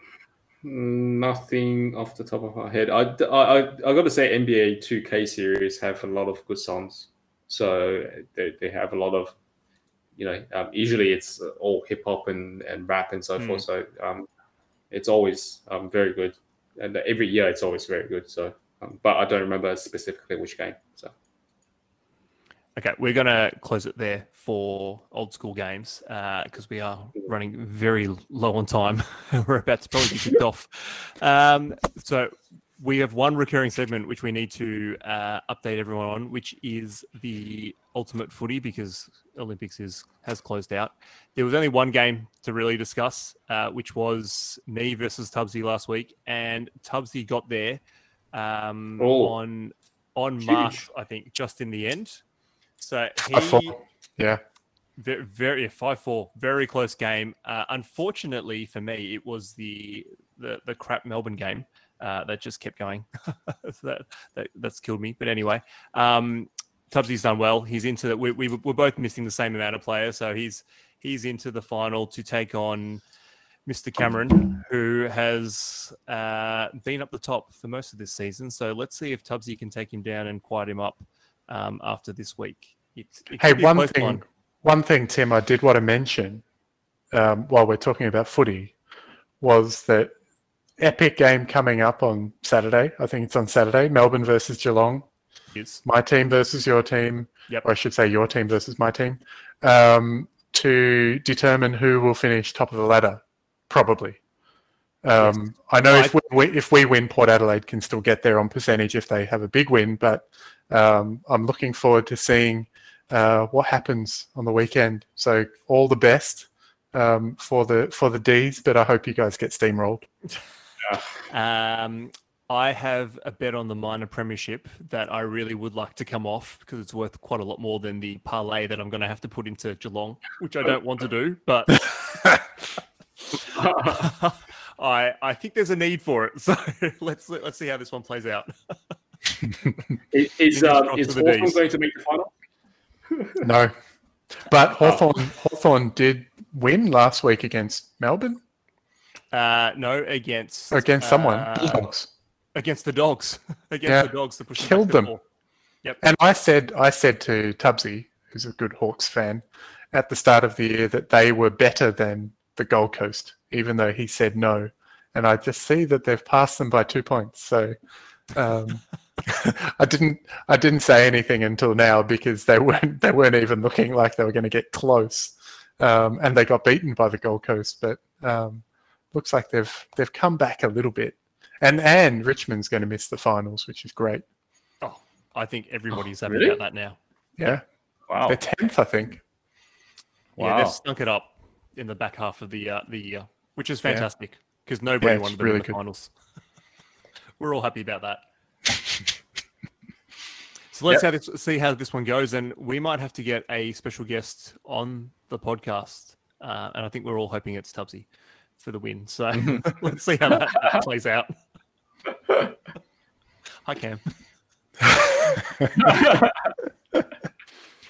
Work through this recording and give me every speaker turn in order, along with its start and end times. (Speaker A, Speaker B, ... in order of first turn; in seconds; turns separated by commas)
Speaker A: 0.6-9.3, Speaker A: 10.2-14.3, Speaker B: 13.4-13.6, Speaker A: 14.9-21.1, Speaker B: 22.8-47.8, Speaker B: 48.3-52.2, Speaker A: 49.0-49.3, Speaker A: 50.4-50.8, Speaker B: 52.8-53.8, Speaker C: 53.3-54.4, Speaker B: 55.0-73.0, Speaker B: 73.7-84.2, Speaker C: 83.4-86.4, Speaker C: 87.1-88.7, Speaker C: 89.4-90.1, Speaker C: 90.8-95.0, Speaker B: 95.5-95.8, Speaker C: 95.8-104.2, Speaker C: 105.0-120.1, Speaker B: 105.9-106.1, Speaker B: 121.3-131.9, Speaker A: 133.5-134.1, Speaker B: 133.8-138.8, Speaker A: 140.1-142.3, Speaker B: 140.5-141.6, Speaker A: 143.1-143.4, Speaker C: 143.4-143.7, Speaker C: 144.4-148.4, Speaker A: 144.8-145.2, Speaker B: 149.3-151.9, Speaker C: 150.7-152.1, Speaker B: 152.5-155.2, Speaker C: 153.8-155.1, Speaker C: 156.0-167.8, Speaker C: 168.3-184.2, Speaker B: 184.8-187.0, Speaker A: 186.3-186.6, Speaker C: 187.4-187.6, Speaker A: 188.1-188.4, Speaker C: 188.3-189.2, Speaker A: 190.4-190.8, Speaker B: 190.4-196.1, Speaker C: 195.0-195.8, Speaker B: 197.4-198.2, Speaker B: 200.7-208.1, Speaker B: 208.6-211.3, Speaker B: 213.6-214.0, Speaker A: 215.8-216.6